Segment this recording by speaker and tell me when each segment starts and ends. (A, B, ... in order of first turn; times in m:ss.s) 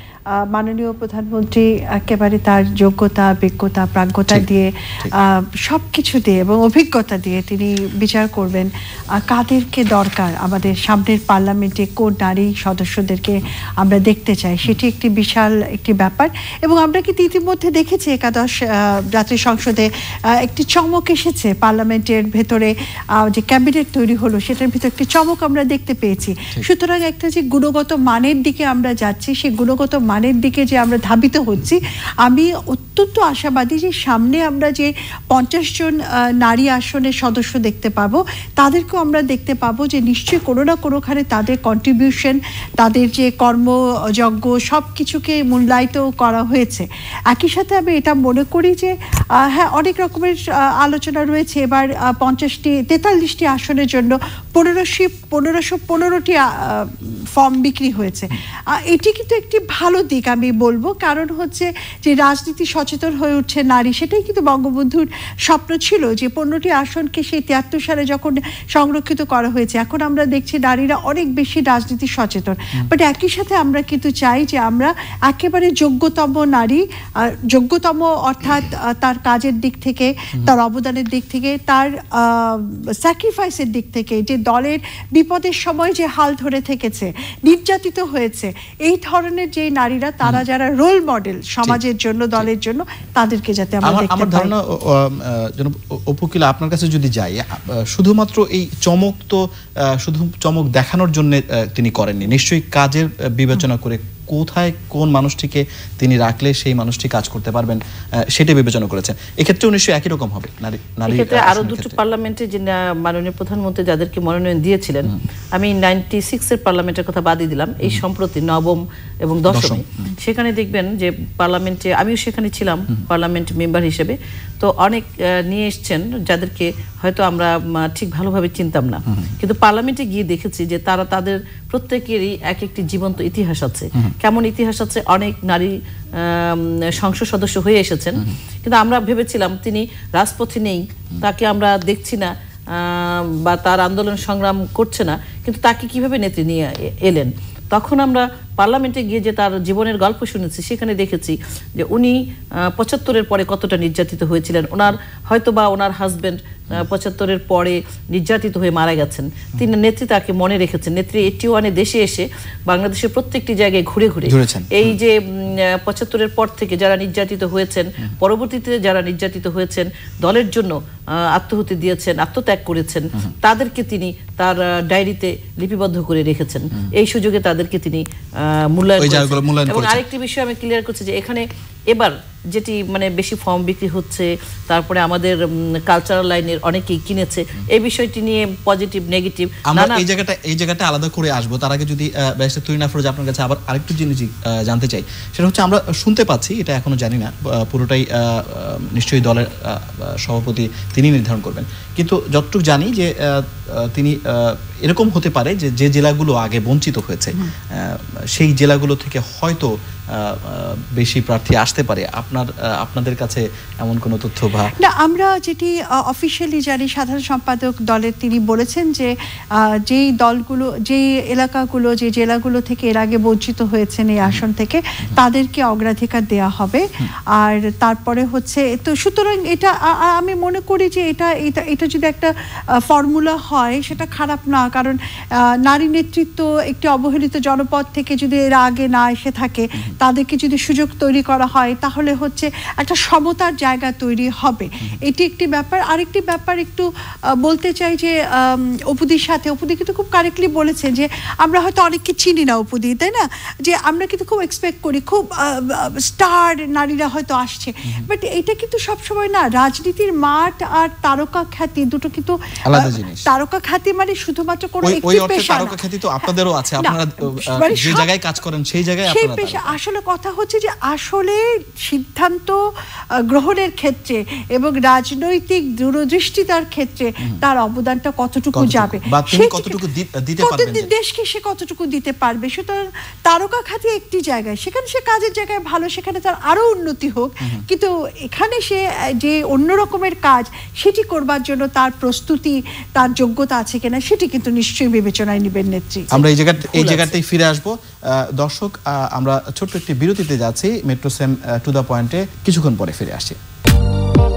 0:00.5-0:22.7 A
0:23.2-1:34.5 A
1:33.8-1:52.0 B
1:51.1-2:50.8 C
1:59.5-1:59.9 B
2:09.1-2:09.3 B
2:44.2-2:45.0 B
2:51.3-3:10.0 C
2:59.0-3:00.0 B
3:09.7-3:34.7 B
3:34.8-3:46.8 A
3:47.4-3:52.3 A
3:52.9-3:55.0 A
3:55.6-4:06.9 A
4:07.4-4:28.1 A
4:22.7-4:23.3 B
4:24.8-4:29.8 B
4:29.0-4:32.6 A
4:33.3-4:39.8 A
4:38.5-4:40.9 B
4:40.4-4:56.2 A
4:56.1-5:03.4 B
4:56.2-4:57.1 C